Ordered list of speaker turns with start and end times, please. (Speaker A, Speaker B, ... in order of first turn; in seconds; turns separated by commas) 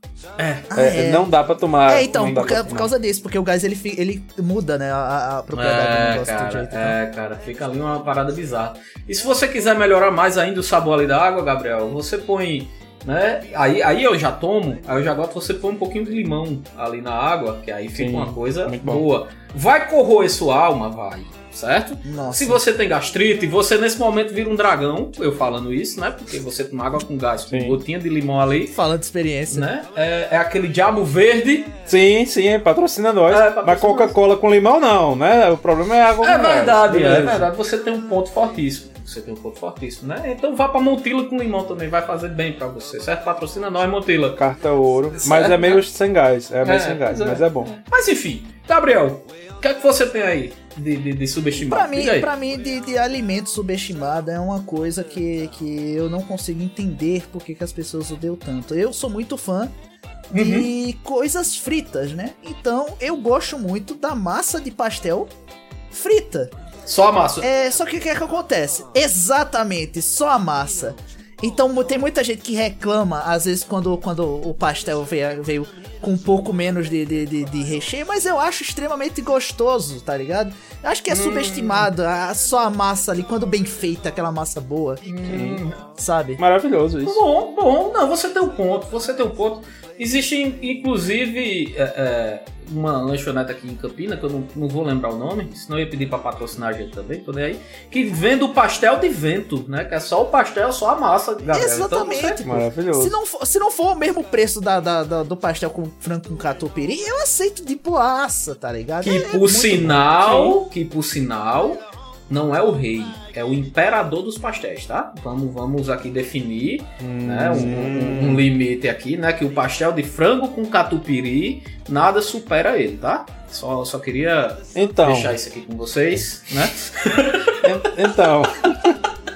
Speaker A: 0.4-0.7, Speaker B: 0.7-1.3, Speaker C: 0.7-2.9, Speaker B: 1.9-7.0, Speaker A: 5.5-28.8, Speaker C: 17.9-19.0, Speaker B: 22.0-22.6, Speaker C: 27.5-27.8, Speaker B: 28.7-29.7, Speaker A: 29.5-31.8, Speaker C: 31.9-37.5, Speaker A: 33.3-34.1, Speaker A: 36.2-44.4, Speaker C: 44.4-47.7, Speaker A: 45.1-45.8, Speaker A: 46.6-52.3, Speaker B: 51.6-59.7, Speaker A: 60.3-60.7, Speaker B: 60.3-65.3, Speaker B: 65.9-66.5, Speaker A: 66.8-67.5, Speaker B: 67.4-85.0, Speaker A: 81.1-81.9, Speaker A: 85.0-85.8, Speaker C: 85.3-85.6, Speaker B: 86.0-86.4, Speaker C: 86.4-87.2, Speaker A: 87.0-102.4, Speaker B: 101.4-110.0, Speaker C: 102.4-103.2, Speaker A: 109.0-127.6, Speaker C: 110.2-110.6, Speaker C: 117.0-118.5, Speaker C: 124.8-125.4, Speaker C: 127.6-129.0